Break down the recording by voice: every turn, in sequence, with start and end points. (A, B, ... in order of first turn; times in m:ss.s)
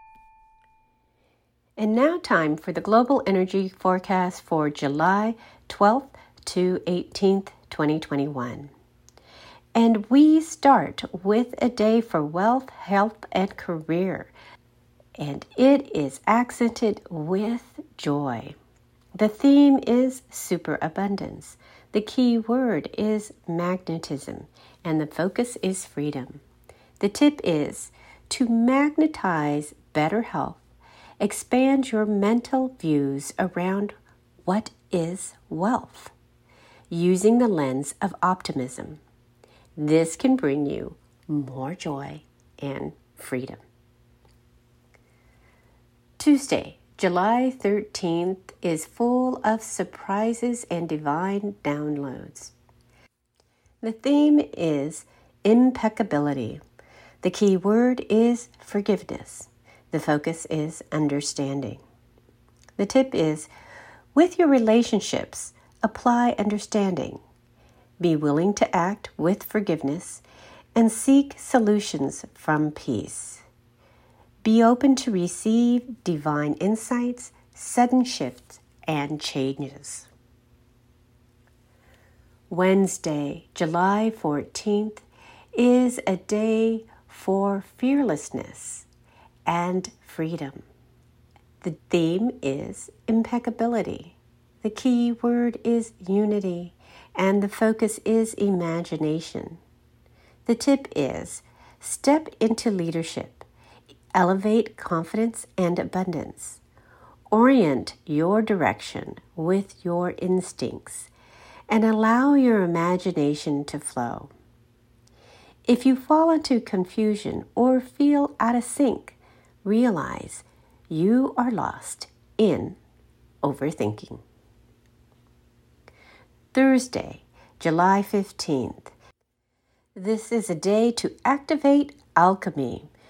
0:01.8-0:08.7 A
0:09.8-0:14.3 A
0:15.2-0:18.6 A
0:19.2-0:26.4 A
0:27.0-0:30.6 A
0:31.2-0:33.9 A
0:34.4-0:36.1 A
0:36.9-0:39.0 A
0:39.8-0:43.6 A
0:46.2-0:52.5 A
0:53.8-0:56.6 A
0:57.2-1:01.8 A
1:02.8-1:03.5 A
1:04.2-1:07.2 A
1:08.0-1:10.2 A
1:10.8-1:13.4 A
1:14.4-1:20.1 A
1:22.5-1:25.0 A
1:25.6-1:28.9 A
1:29.5-1:30.6 A
1:31.6-1:39.6 A
1:40.5-1:43.5 A
1:44.2-1:46.6 A
1:47.3-1:51.1 A
1:51.7-1:54.3 A
1:55.7-2:02.8 A
2:03.4-2:04.2 A
2:06.5-2:08.9 A
2:10.0-2:12.9 A